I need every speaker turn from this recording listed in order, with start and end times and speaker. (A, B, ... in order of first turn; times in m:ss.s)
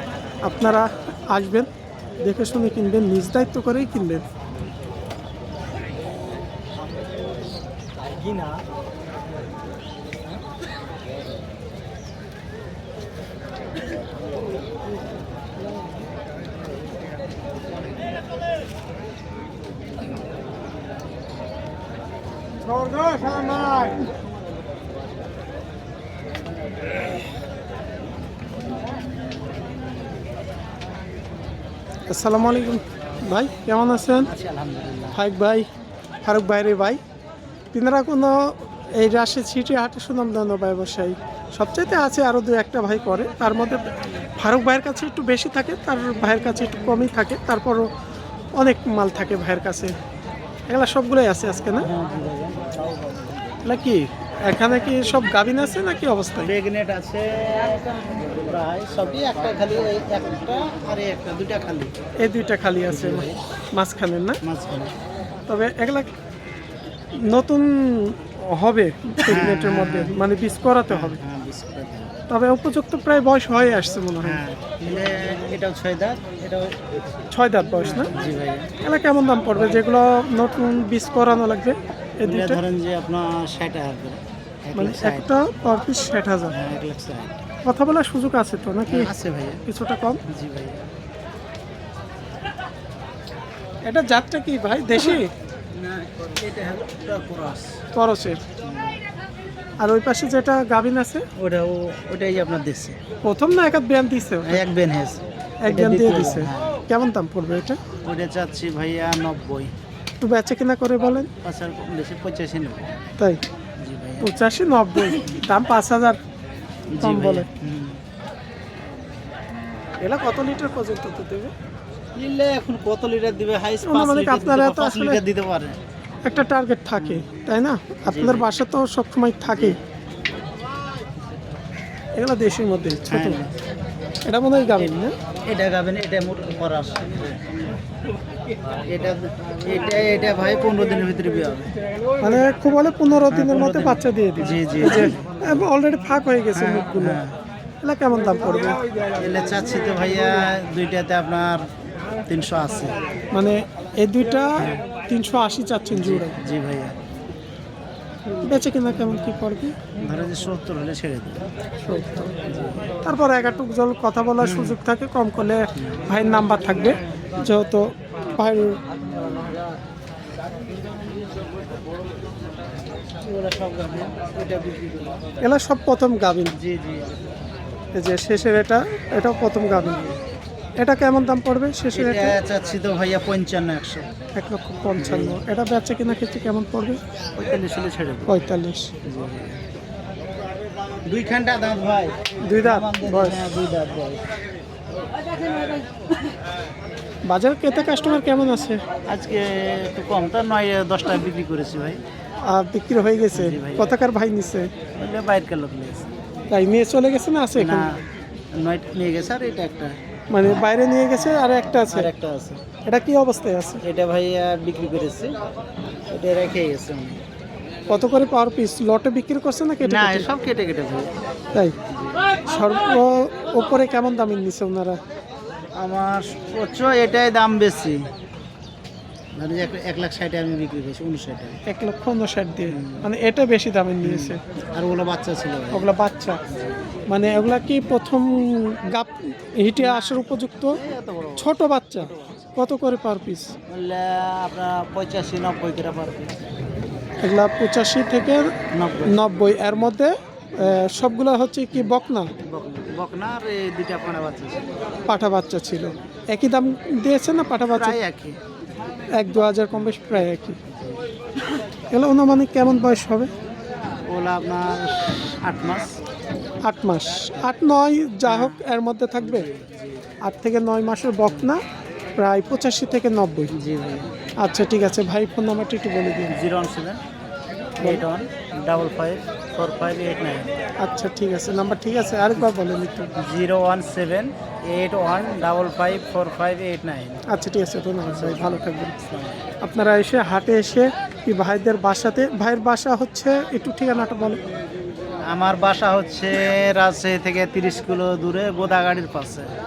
0:00.4-0:01.7 A
0:02.2-0:04.2 A
0:32.1-0:34.3 A
0:34.2-0:35.2 B
0:35.1-0:35.7 A
0:36.2-0:37.0 A
0:37.7-0:47.9 A
0:48.6-0:49.9 A
0:50.7-0:51.9 A
0:51.8-0:53.4 B
0:53.7-0:56.5 A
0:56.4-1:01.9 B
1:02.2-1:04.4 A
1:02.9-1:03.4 B
1:04.4-1:04.9 B
1:05.5-1:06.1 A
1:07.2-1:11.2 A
1:09.2-1:10.2 B
1:10.9-1:12.2 B
1:12.3-1:14.4 A
1:14.2-1:16.8 B
1:17.3-1:18.1 A
1:17.8-1:18.7 B
1:18.8-1:22.6 A
1:22.2-1:25.3 B
1:24.8-1:26.6 A
1:26.5-1:27.4 B
1:27.6-1:29.1 A
1:28.9-1:29.6 B
1:29.6-1:30.2 A
1:30.3-1:30.9 B
1:33.9-1:35.3 A
1:34.9-1:35.2 B
1:35.7-1:37.8 B
1:37.9-1:38.4 A
1:38.6-1:39.0 B
1:39.8-1:41.3 A
1:41.4-1:43.0 B
1:43.2-1:44.6 A
1:44.4-1:46.8 B
1:45.7-1:47.8 A
1:48.0-1:49.7 B
1:50.2-1:51.3 A
1:51.4-1:52.9 B
1:53.8-1:54.3 B
1:54.2-1:56.2 A
1:56.9-1:58.0 B
1:57.0-1:57.5 A
2:00.0-2:01.5 A
2:02.2-2:05.8 B
2:03.8-2:05.2 A
2:06.2-2:09.8 A
2:07.0-2:07.3 B
2:08.1-2:08.5 B
2:09.5-2:09.8 B
2:12.2-2:13.4 A
2:13.1-2:13.5 B
2:14.3-2:15.2 A
2:15.5-2:17.4 B
2:18.8-2:21.7 B
2:22.2-2:27.2 A
2:23.3-2:25.7 B
2:26.5-2:27.4 B
2:27.8-2:28.8 A
2:29.1-2:31.6 B
2:32.3-2:33.0 B
2:33.3-2:36.4 A
2:35.9-2:37.0 B
2:38.4-2:39.8 A
2:40.0-2:41.5 B
2:41.8-2:42.4 A
2:42.5-2:42.8 B
2:43.0-2:48.8 A
2:44.4-2:44.8 B
2:45.8-2:46.2 B
2:49.2-2:49.6 B
2:53.2-2:55.2 B
2:55.4-2:56.6 A
2:56.5-2:57.3 B
2:58.0-3:00.0 A
2:59.8-3:00.1 B
3:00.8-3:02.4 A
3:01.9-3:04.1 B
3:04.4-3:07.0 A
3:05.0-3:05.4 B
3:07.4-3:08.5 B
3:08.3-3:08.9 A
3:09.0-3:09.6 B
3:11.1-3:14.3 B
3:12.4-3:13.5 A
3:17.3-3:18.8 A
3:19.1-3:22.0 B
3:22.5-3:24.7 A
3:23.3-3:24.0 B
3:25.0-3:26.1 B
3:26.5-3:27.9 A
3:27.6-3:28.0 B
3:28.6-3:30.0 B
3:30.3-3:32.1 A
3:31.2-3:32.6 B
3:32.9-3:33.8 A
3:33.8-3:35.4 B
3:36.1-3:37.2 B
3:37.9-3:40.3 A
3:39.8-3:41.1 B
3:41.9-3:42.3 B
3:42.5-3:45.0 A
3:45.8-3:48.0 B
3:49.4-3:51.6 B
3:51.7-3:54.4 A
3:52.7-3:53.1 B
3:54.0-3:55.9 B
3:55.7-3:56.4 A
3:57.1-4:00.8 A
3:59.8-4:02.5 B
4:01.4-4:03.5 A
4:03.7-4:06.4 B
4:07.2-4:08.5 A
4:08.7-4:09.8 B
4:09.1-4:12.3 A
4:11.8-4:14.7 B
4:15.1-4:18.0 A
4:17.7-4:18.4 B
4:19.2-4:20.6 A
4:19.7-4:21.1 B
4:21.9-4:23.3 A
4:24.1-4:25.9 B
4:26.6-4:29.5 A
4:28.3-4:28.6 B
4:29.2-4:30.0 B
4:30.2-4:31.6 A
4:32.2-4:33.5 A
4:33.6-4:34.1 B
4:34.4-4:36.3 A
4:36.3-4:37.0 B
4:37.8-4:40.5 B
4:40.8-4:43.1 A
4:43.2-4:47.2 B
4:47.3-4:49.0 A
4:48.0-4:49.4 B
4:49.6-4:54.4 A
4:55.3-4:59.5 B